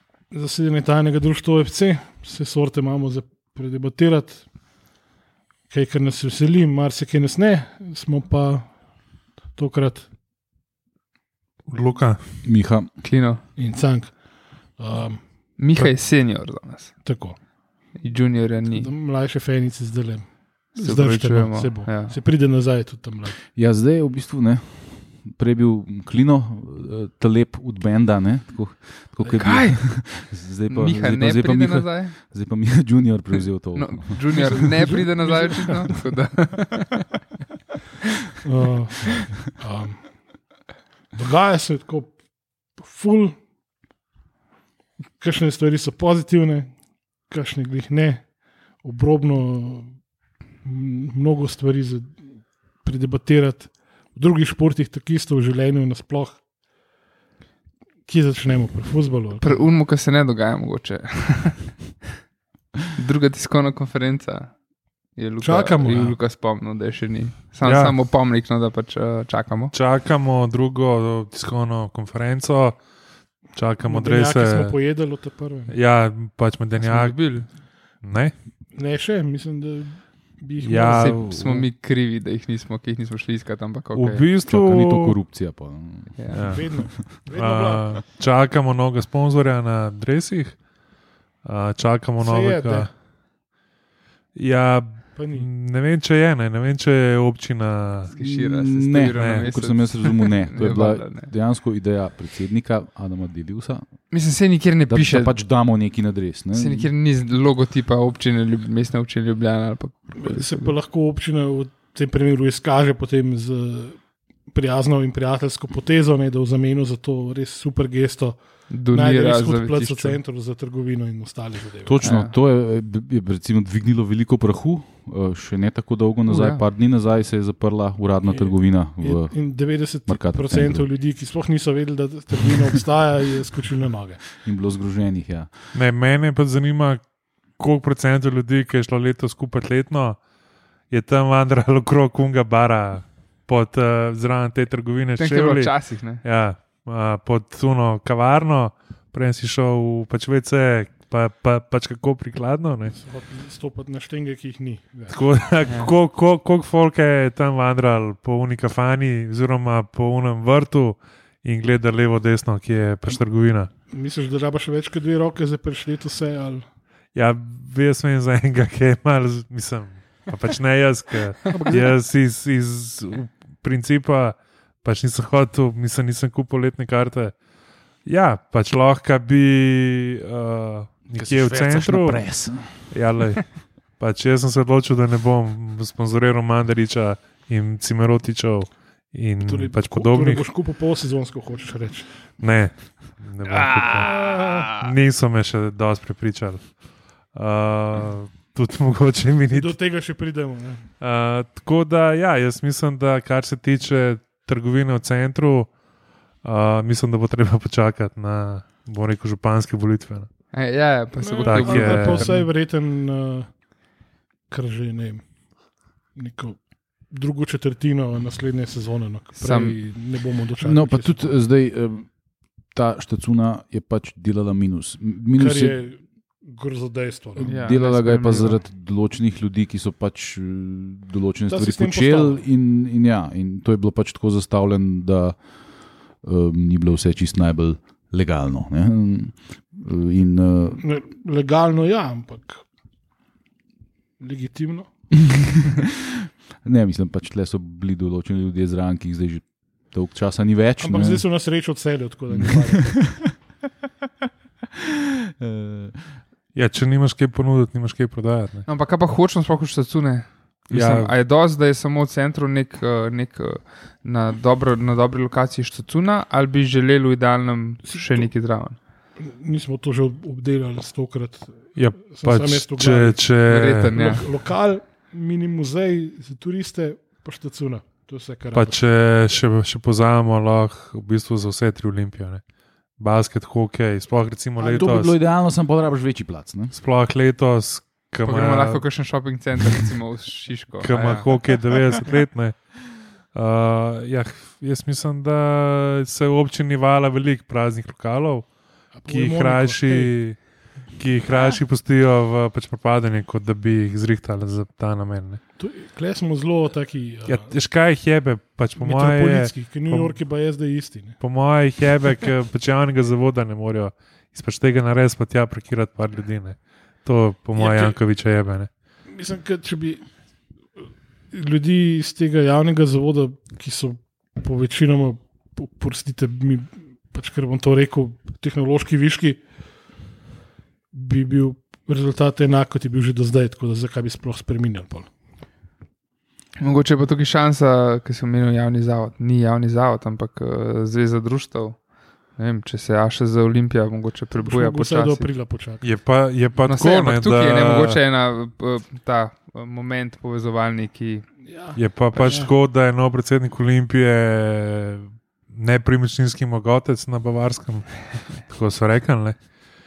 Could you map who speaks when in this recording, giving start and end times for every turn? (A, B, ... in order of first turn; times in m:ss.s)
0:00.3-0:04.4 A
0:05.7-0:08.7 A
0:09.5-0:10.0 A
0:11.7-0:12.2 B
0:12.4-0:12.9 C
0:13.0-0:13.4 D
0:13.6-0:14.2 A
0:14.8-0:15.2 A
0:15.6-0:16.9 D
0:17.0-0:17.4 A
0:18.0-0:18.9 D
0:18.7-0:23.4 A
0:20.8-0:22.2 D
0:23.6-0:35.0 C
0:29.2-0:30.1 D
0:30.7-0:32.1 D
0:33.7-0:37.1 D
0:34.3-0:35.7 A
0:38.4-0:40.0 A
0:41.2-0:42.1 A
0:42.7-0:43.4 A
0:45.2-0:46.7 A
0:47.3-0:48.3 A
0:48.8-0:50.0 A
0:50.6-0:52.2 A
0:52.8-0:56.4 A
0:58.1-0:59.6 A
0:59.4-1:01.8 D
1:02.9-1:04.5 D
1:05.1-1:09.7 D
1:05.4-1:06.2 A
1:07.6-1:08.0 B
1:09.7-1:12.8 B
1:13.6-1:14.7 B
1:13.8-1:15.8 A
1:15.7-1:17.3 B
1:16.8-1:17.5 D
1:18.0-1:18.3 B
1:18.7-1:21.1 A
1:20.6-1:21.7 B
1:20.8-1:24.2 D
1:23.9-1:25.2 B
1:24.5-1:26.4 C
1:26.2-1:26.4 D
1:26.3-1:30.6 B
1:26.4-1:28.0 A
1:31.4-1:32.9 B
1:32.2-1:32.9 A
1:34.4-1:38.1 B
1:35.2-1:35.5 A
1:38.1-1:41.3 D
1:38.2-1:43.8 C
1:39.2-1:39.5 B
1:44.1-1:45.3 D
1:44.9-1:46.9 C
1:46.5-1:50.7 D
1:50.2-1:58.4 A
1:58.7-2:00.2 D
1:58.9-2:02.0 A
2:01.8-2:09.3 C
2:02.0-2:02.3 D
2:06.3-2:06.6 D
2:08.3-2:14.2 A
2:10.1-2:10.9 C
2:14.4-2:15.5 C
2:15.7-2:17.0 B
2:17.6-2:20.2 B
2:20.9-2:33.0 B
2:25.2-2:26.2 D
2:33.0-2:35.2 A
2:35.1-2:43.7 B
2:35.7-2:35.9 D
2:43.9-2:46.6 A
2:47.2-2:57.3 B
2:51.5-2:51.9 A
2:58.0-3:02.3 B
3:01.2-3:02.8 C
3:02.9-3:10.5 B
3:09.4-3:12.1 A
3:12.4-3:14.2 B
3:13.5-3:14.8 D
3:14.0-3:14.7 A
3:14.7-3:16.6 B
3:17.3-3:19.7 B
3:19.5-3:20.8 A
3:21.0-3:25.7 B
3:26.4-3:30.3 B
3:30.5-3:32.5 D
3:31.2-3:33.5 A
3:31.4-3:32.3 B
3:34.5-3:35.2 A
3:36.2-3:41.3 A
3:39.3-3:39.8 D
3:40.6-3:42.1 C
3:42.7-3:45.8 C
3:45.4-3:47.5 A
3:47.4-3:55.4 C
3:47.4-3:48.6 D
3:51.5-3:52.4 A
3:56.2-4:00.8 C
4:00.8-4:02.6 A
4:04.2-4:04.9 A
4:05.1-4:11.2 C
4:10.8-4:13.1 A
4:12.3-4:13.3 C
4:15.4-4:16.0 C
4:16.5-4:18.7 B
4:18.7-4:28.8 D
4:20.7-4:21.1 B
4:27.9-4:28.3 A
4:29.2-4:33.2 A
4:31.8-4:34.0 B
4:33.4-4:34.2 D
4:33.9-4:38.8 A
4:38.5-4:42.4 B
4:43.0-4:45.1 B
4:44.6-4:45.1 A
4:44.8-4:46.7 C
4:46.7-4:48.8 B
4:48.2-4:51.3 D
4:50.8-4:52.6 B
4:53.3-4:58.5 B
4:59.0-5:00.1 A
4:59.1-5:00.4 B
5:01.0-5:05.4 B
5:05.6-5:07.5 A
5:07.3-5:10.2 B
5:08.8-5:11.2 A
5:11.2-5:18.7 B
5:17.6-5:18.0 A
5:19.1-5:20.0 A
5:21.3-5:29.4 A
5:30.9-5:35.1 A
5:36.6-5:41.8 D
5:42.3-5:45.3 D
5:44.4-5:45.9 A
5:45.8-5:48.0 B
5:46.6-5:51.3 D
5:51.4-5:52.5 A
5:51.8-5:59.4 B